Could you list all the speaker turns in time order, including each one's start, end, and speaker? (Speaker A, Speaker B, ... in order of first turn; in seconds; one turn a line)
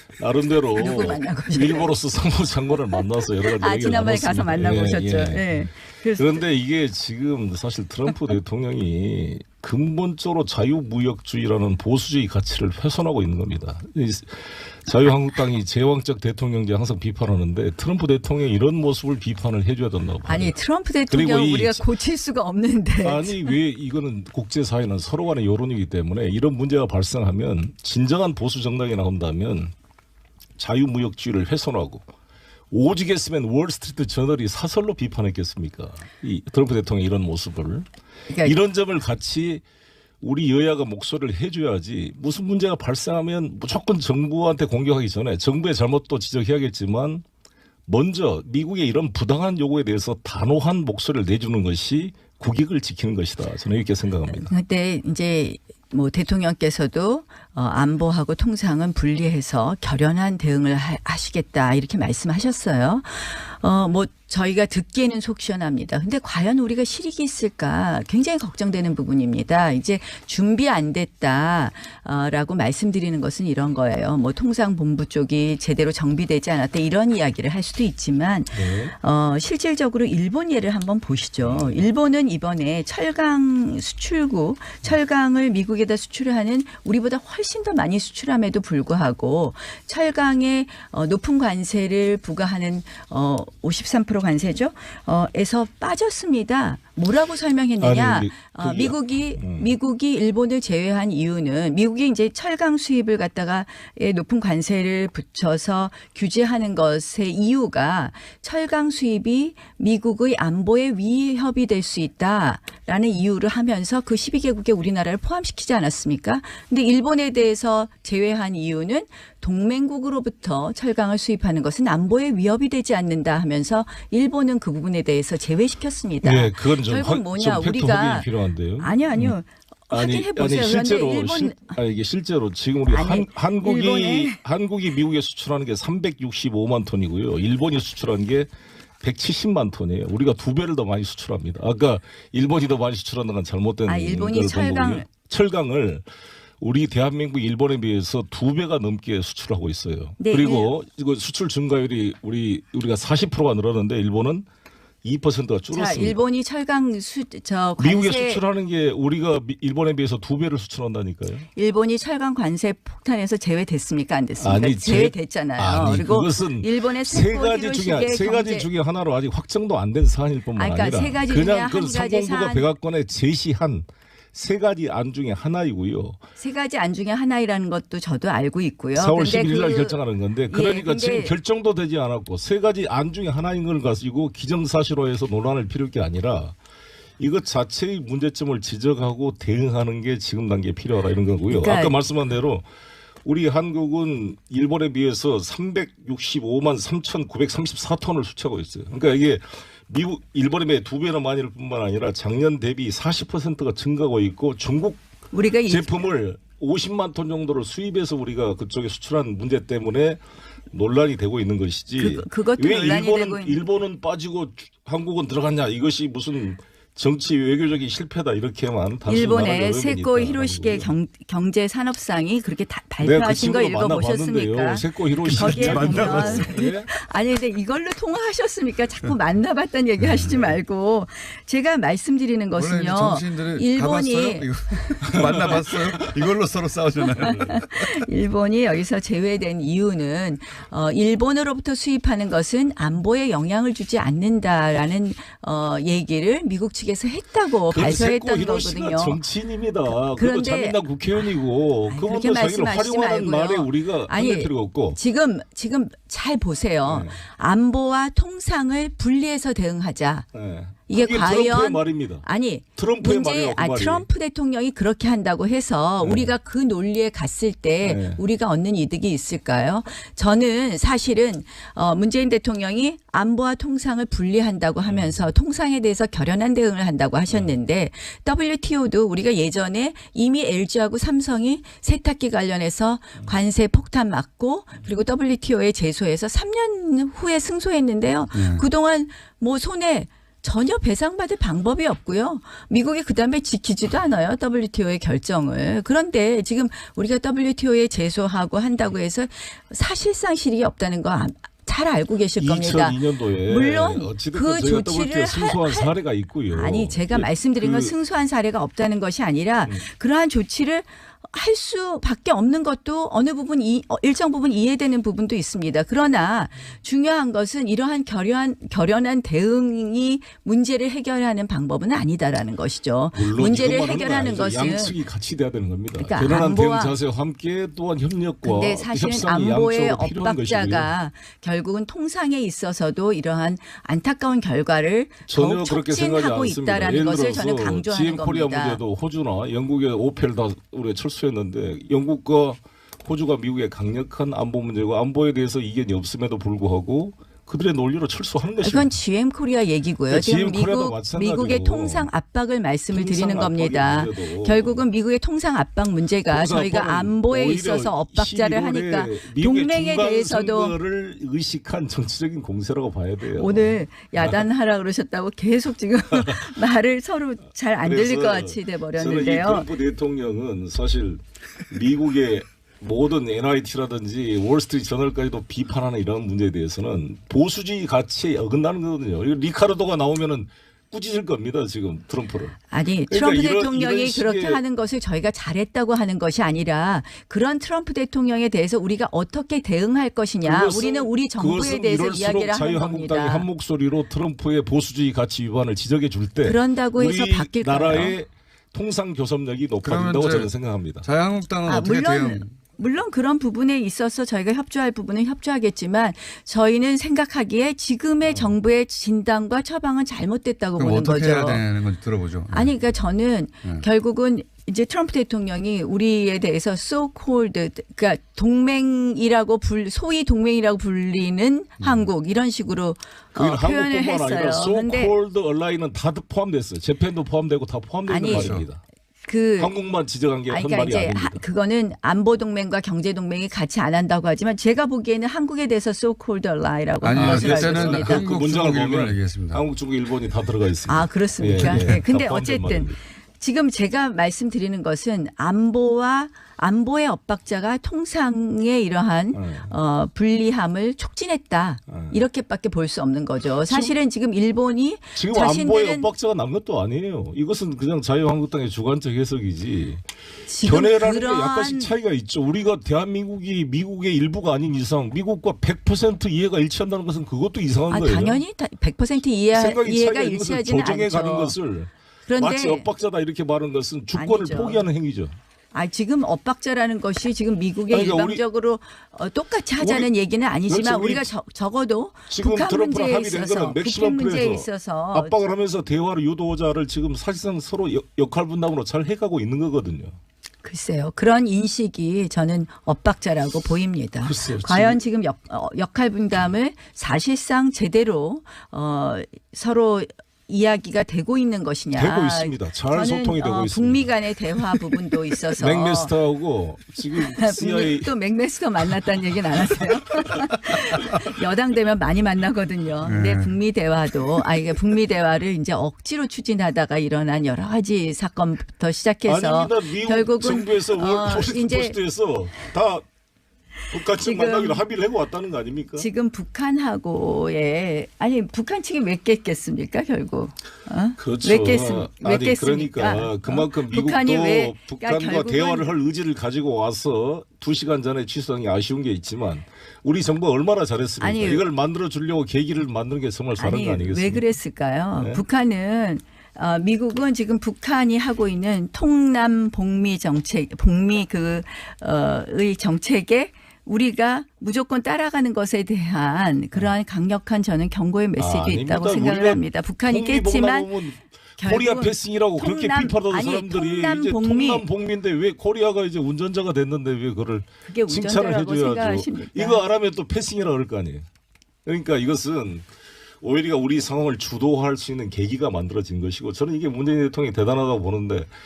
Speaker A: 0.2-5.7
Speaker B: 0.8-1.9
Speaker B: 3.4-6.5
Speaker A: 6.2-20.6
Speaker B: 20.3-23.6
Speaker A: 21.1-21.9
Speaker A: 23.0-29.7
Speaker A: 30.6-32.0
Speaker A: 32.7-37.9
Speaker B: 38.3-38.6
Speaker A: 38.4-39.6
Speaker A: 40.2-47.2
Speaker A: 47.9-54.5
Speaker B: 54.3-131.8
Speaker A: 78.5-79.0
Speaker A: 81.4-81.8
Speaker A: 97.8-99.7
Speaker A: 126.2-129.4
Speaker A: 129.9-138.5
Speaker B: 132.9-134.4
Speaker A: 139.0-146.1
Speaker B: 143.9-145.1
Speaker A: 146.6-154.4
Speaker B: 150.2-150.7
Speaker A: 155.0-156.2
Speaker B: 155.7-158.4
Speaker A: 157.8-161.5
Speaker B: 161.5-168.7
Speaker A: 164.4-176.2
Speaker B: 170.6-172.7
Speaker B: 176.4-181.3
Speaker A: 178.9-186.6
Speaker A: 187.2-192.7
Speaker B: 191.5-192.0
Speaker A: 193.2-205.0
Speaker B: 205.3-206.1
Speaker A: 205.7-210.2
Speaker A: 210.7-220.9
Speaker B: 212.0-213.6
Speaker B: 219.1-234.5
Speaker A: 223.0-226.9
Speaker C: 225.2-226.6
Speaker C: 232.6-237.9
Speaker A: 235.2-235.9
Speaker B: 235.4-235.7
Speaker B: 237.2-249.2
Speaker A: 247.7-255.0
Speaker B: 249.9-251.3
Speaker B: 251.9-260.3
Speaker A: 256.9-257.2
Speaker A: 260.3-262.2
Speaker B: 260.9-305.9
Speaker A: 262.8-264.1
Speaker A: 266.0-266.3
Speaker A: 267.8-268.2
Speaker A: 274.9-275.1
Speaker C: 288.3-288.6
Speaker A: 302.4-307.9
Speaker B: 306.5-325.0
Speaker A: 323.1-330.9
Speaker B: 326.0-327.0
Speaker B: 328.4-338.8
Speaker A: 335.3-348.9
Speaker B: 348.6-360.8
Speaker A: 350.1-352.1
Speaker A: 352.9-354.8
Speaker A: 356.3-364.5
Speaker B: 363.3-369.7
Speaker A: 366.2-366.4
Speaker A: 367.8-382.6
Speaker B: 382.7-393.5
Speaker A: 383.1-384.6
Speaker A: 390.4-401.1
Speaker B: 396.4-398.2
Speaker C: 399.8-402.5
Speaker B: 401.6-411.6
Speaker A: 408.2-408.6
Speaker C: 410.8-412.7
Speaker B: 412.5-425.1
Speaker C: 421.8-422.1
Speaker A: 423.4-428.8
Speaker B: 428.1-428.6
Speaker C: 428.3-428.7
Speaker B: 429.3-429.8
Speaker A: 429.6-431.4
Speaker B: 430.5-438.3
Speaker C: 437.0-439.6
Speaker A: 437.1-443.0
Speaker B: 440.9-456.1
Speaker C: 441.6-442.0
Speaker A: 449.3-449.7
Speaker A: 451.9-452.2
Speaker A: 453.7-453.9
Speaker A: 455.1-460.0
Speaker B: 460.5-461.9
Speaker A: 460.6-468.4
Speaker B: 467.9-471.6
Speaker A: 469.5-475.4
Speaker B: 472.3-472.9
Speaker B: 474.1-474.9
Speaker B: 475.7-485.4
Speaker A: 477.9-478.4
Speaker A: 479.8-480.1
Speaker A: 480.7-481.3
Speaker A: 482.3-490.1
Speaker B: 490.6-506.1
Speaker A: 494.2-495.0
Speaker A: 502.0-504.1
Speaker A: 505.5-508.1
Speaker B: 507.2-522.0
Speaker C: 513.0-513.6
Speaker A: 519.3-523.0
Speaker A: 523.9-526.1
Speaker B: 524.1-524.8
Speaker B: 526.0-535.9
Speaker A: 531.2-544.5
Speaker B: 541.2-541.6
Speaker B: 543.6-560.9
Speaker A: 545.1-545.4
Speaker A: 558.4-571.2
Speaker B: 561.6-564.9
Speaker B: 567.9-569.8
Speaker A: 571.9-572.9
Speaker A: 573.4-578.5